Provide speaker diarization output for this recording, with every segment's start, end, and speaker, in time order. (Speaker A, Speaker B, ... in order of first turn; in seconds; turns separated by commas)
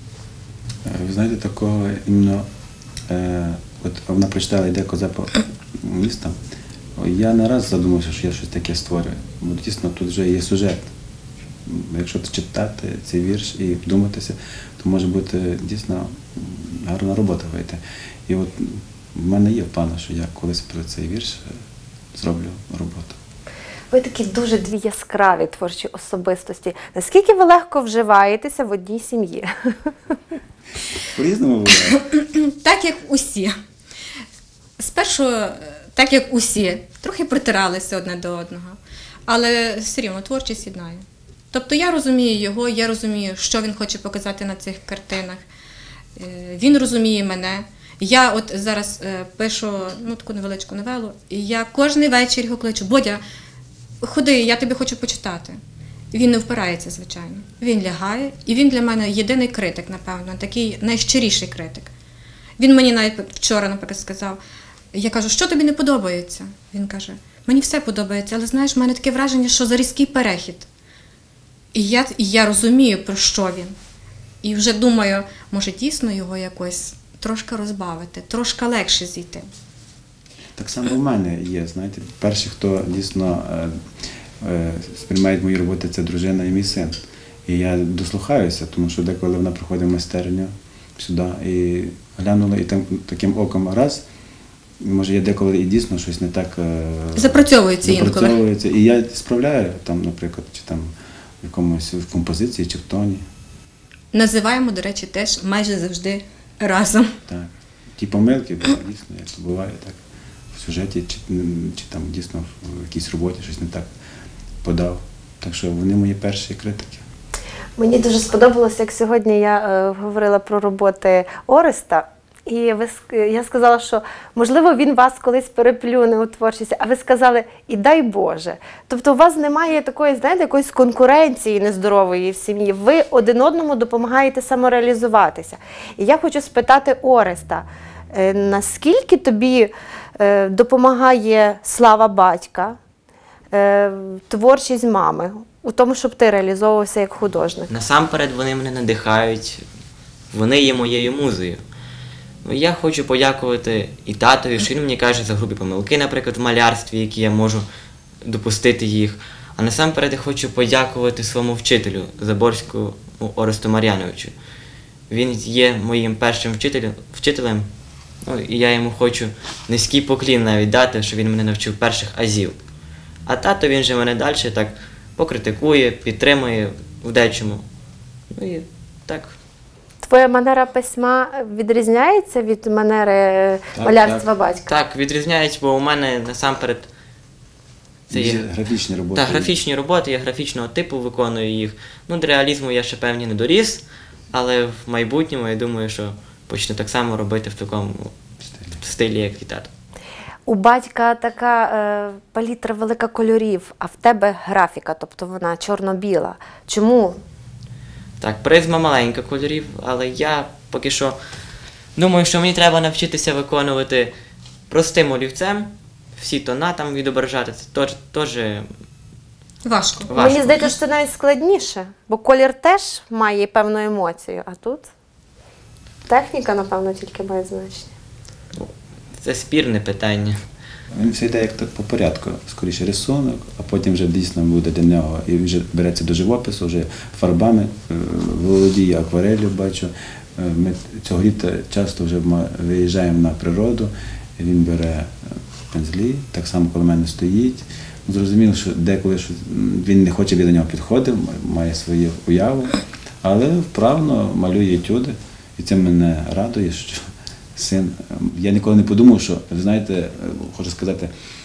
Speaker A: 0.8-2.5, Speaker A: 3.1-6.4, Speaker A: 7.0-10.9, Speaker A: 11.6-21.6, Speaker A: 22.1-23.2, Speaker B: 23.9-30.2, Speaker A: 30.9-32.0, Speaker C: 31.9-33.5, Speaker C: 34.8-45.4, Speaker C: 46.1-53.2, Speaker C: 54.0-55.6, Speaker C: 56.1-61.9, Speaker C: 62.6-64.4, Speaker C: 64.9-70.7, Speaker C: 71.7-73.7, Speaker C: 74.4-79.5, Speaker A: 80.5-83.8, Speaker A: 84.4-94.0, Speaker A: 94.8-103.2, Speaker C: 97.2-98.4, Speaker C: 104.1-107.2, Speaker A: 107.3-110.0, Speaker A: 110.5-113.9, Speaker A: 114.6-117.0, Speaker B: 117.8-142.8, Speaker B: 143.5-147.7, Speaker D: 147.7-149.6, Speaker D: 150.3-151.6, Speaker D: 152.4-157.7, Speaker D: 158.2-164.3, Speaker D: 165.1-167.7, Speaker D: 168.2-172.6, Speaker D: 173.2-177.6, Speaker D: 178.3-179.3, Speaker B: 180.0-184.7, Speaker A: 183.7-184.2, Speaker D: 184.7-186.9, Speaker D: 188.1-188.5, Speaker A: 188.1-189.6, Speaker D: 189.1-198.1, Speaker A: 198.5-198.8, Speaker D: 198.8-199.7, Speaker B: 200.5-207.2, Speaker D: 208.2-211.2, Speaker D: 211.9-214.1, Speaker D: 214.7-218.7, Speaker C: 219.6-220.1, Speaker D: 220.1-220.8, Speaker B: 220.1-224.9, Speaker B: 226.1-227.9, Speaker D: 228.5-230.4, Speaker A: 230.9-261.1